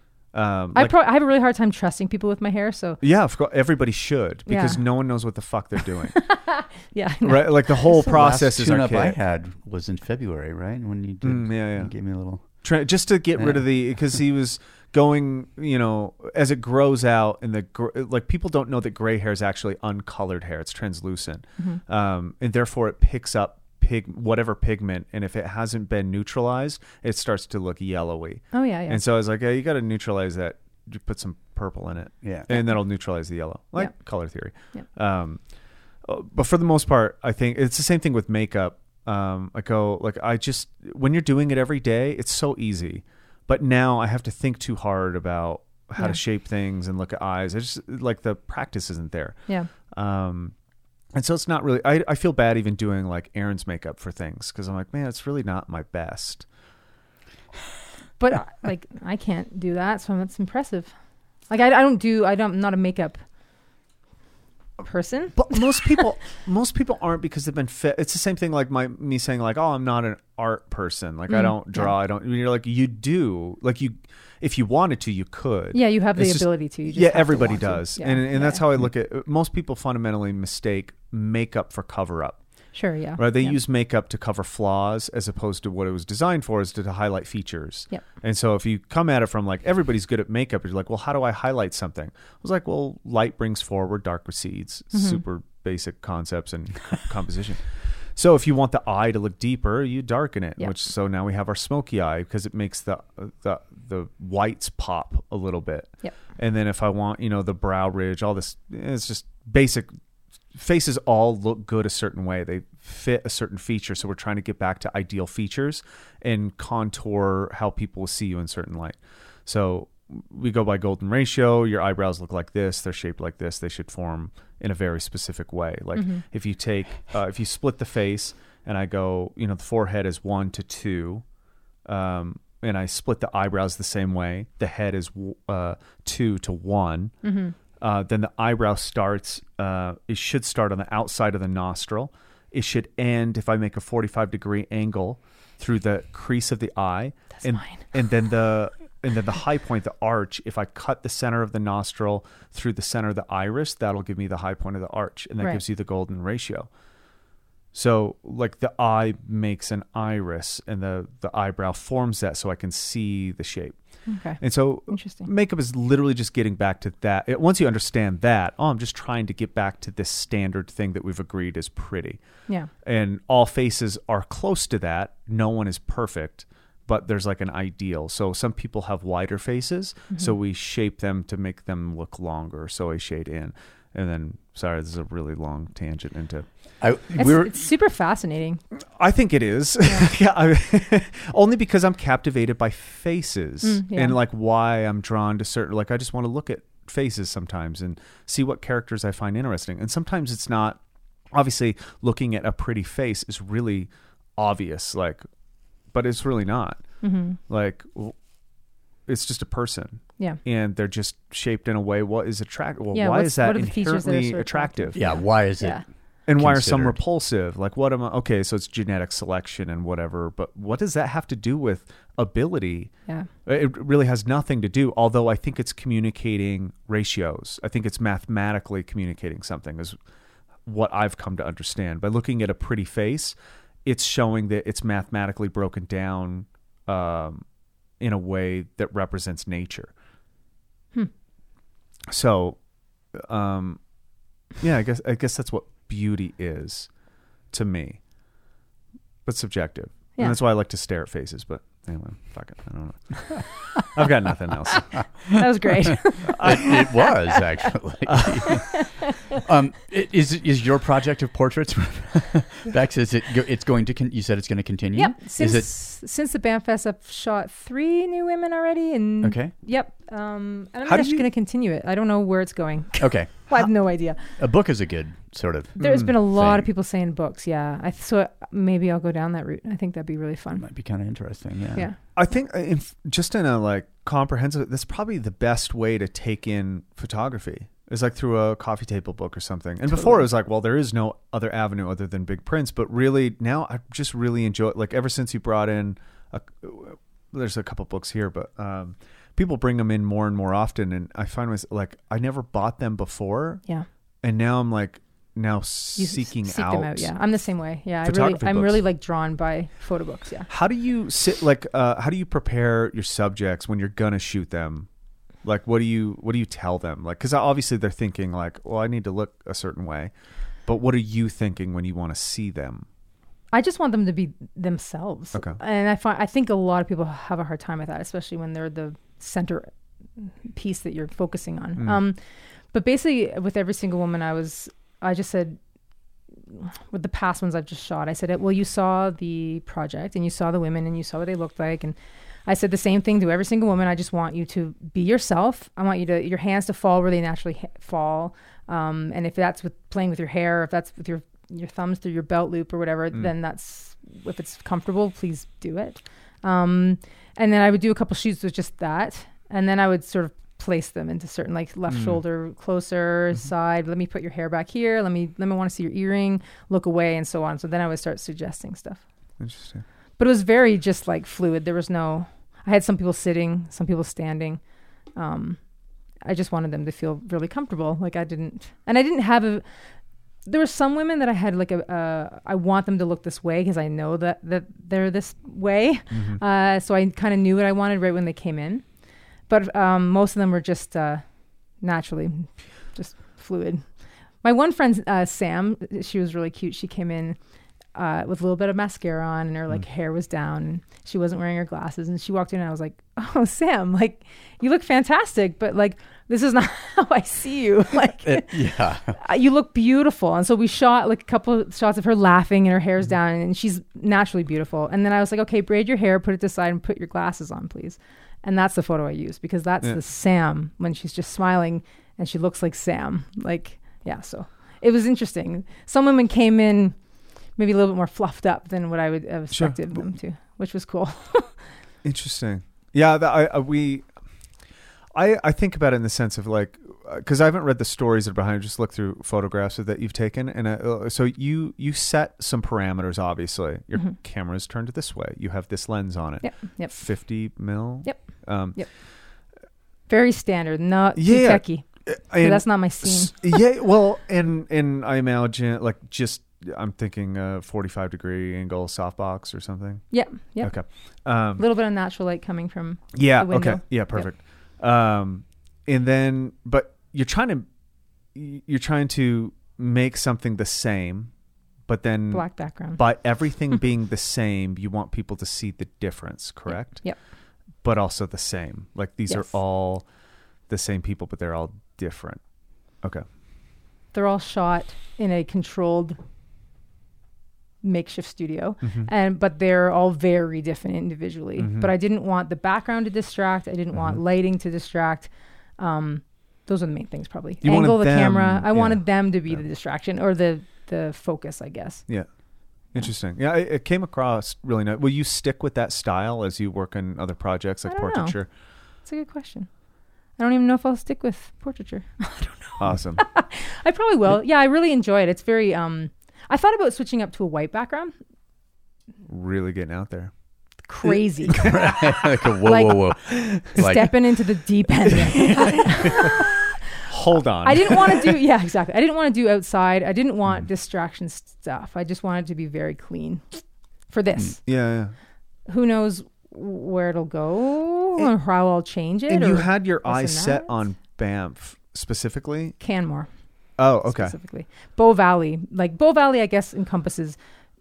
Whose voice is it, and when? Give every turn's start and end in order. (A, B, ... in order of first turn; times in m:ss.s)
0:00.3-0:00.9 A
0:00.7-0:03.0 B
0:03.0-0:06.2 A
0:04.5-0:04.8 B
0:06.1-0:08.2 B
0:07.2-0:09.2 A
0:08.1-0:12.4 C
0:11.2-0:11.9 A
0:12.6-0:35.4 A
0:13.4-0:13.6 C
0:28.5-0:29.0 B
0:32.2-0:32.5 C
0:36.0-0:49.4 A
0:49.9-0:50.5 A
0:51.1-0:56.4 A
0:58.2-1:00.9 B
1:01.5-1:03.2 B
1:04.8-1:06.0 B
1:05.3-1:22.4 A
1:11.3-1:11.9 B
1:15.7-1:18.6 B
1:22.7-1:23.6 B
1:23.2-1:49.9 A
1:34.9-1:35.2 B
1:50.5-2:11.2 A
2:05.9-2:06.2 B
2:11.8-2:17.1 A
2:17.2-2:17.5 B
2:17.8-2:36.7 A
2:27.4-2:27.8 B
2:37.7-2:43.8 A
2:44.0-2:45.3 B
2:44.4-2:52.2 A
2:52.8-3:06.5 A
3:06.8-3:07.6 C
3:07.1-3:08.6 B
3:09.0-3:20.8 A
3:13.6-3:14.2 B
3:21.3-3:25.2 A
3:25.9-3:26.8 A
3:27.0-3:27.4 B
3:27.5-3:28.2 A
3:29.1-3:35.0 A
3:32.9-3:35.8 B
3:35.0-3:35.8 C
3:36.3-3:42.9 A
3:36.4-3:37.0 C
3:43.4-3:50.0 A
3:50.6-3:57.4 A
3:58.0-3:59.9 A
4:02.1-4:02.6 A
4:03.1-4:03.8 A
4:04.6-4:06.9 A
4:07.5-4:08.0 A
4:09.2-4:15.0 A
4:15.3-4:17.4 B
4:16.3-4:25.7 C
4:16.4-4:16.8 A
4:18.5-4:18.8 B
4:24.9-4:34.2 B
4:29.2-4:29.5 C
4:30.9-4:31.2 A
4:33.0-4:33.7 C
4:34.3-4:36.7 C
4:35.8-4:40.6 B
4:40.6-4:41.9 C
4:42.2-5:03.6 A
5:04.2-5:07.1 A
5:06.0-5:10.5 B
5:08.0-5:08.8 A
5:10.5-5:14.9 A
5:15.4-5:20.1 A
5:20.6-5:22.9 A
5:23.5-5:32.2 B
5:32.7-5:35.6 B
5:36.5-6:09.0 B
6:01.9-6:02.2 A
6:09.4-6:09.8 A
6:10.2-6:14.6 B
6:15.2-6:15.6 B
6:16.2-6:19.6 B
6:20.4-6:28.8 B
6:26.1-6:26.4 A
6:29.5-6:31.2 B
6:31.8-6:33.8 B
6:34.4-6:37.4 B
6:37.9-7:07.0 B
6:48.2-6:49.2 C
7:07.6-7:11.6 B
7:09.5-7:09.9 A
7:12.0-7:14.1 A
7:15.1-7:28.8 A
7:26.4-7:26.9 B
7:30.1-7:31.8 B
7:31.2-7:40.0 A
7:32.4-7:33.6 B
7:40.1-7:40.7 B
7:40.6-7:41.6 A
7:41.6-7:44.3 B
7:43.1-7:47.7 A
7:48.3-7:51.3 A
7:51.9-7:57.0 A
7:52.3-7:53.0 B
7:57.8-8:00.0 A
8:00.7-8:02.4 A
8:04.1-8:06.2 B
8:07.8-8:22.0 B
8:08.8-8:09.1 A
8:11.6-8:11.9 A
8:17.6-8:19.6 A
8:22.9-8:28.5 A
8:27.8-8:28.4 B
8:29.0-8:29.7 B
8:30.4-8:38.1 B
8:32.8-8:33.2 A
8:39.2-8:40.3 A
8:40.9-8:41.9 B
8:41.5-8:44.2 C
8:41.5-8:42.0 A
8:42.6-8:43.1 B
8:43.7-8:46.7 B
8:47.1-8:48.3 A
8:47.6-8:54.6 B
8:54.6-8:55.1 A
8:55.7-9:00.7 B
8:59.3-9:02.7 A
9:02.8-9:03.3 B
9:03.8-9:04.4 A
9:04.0-9:07.4 B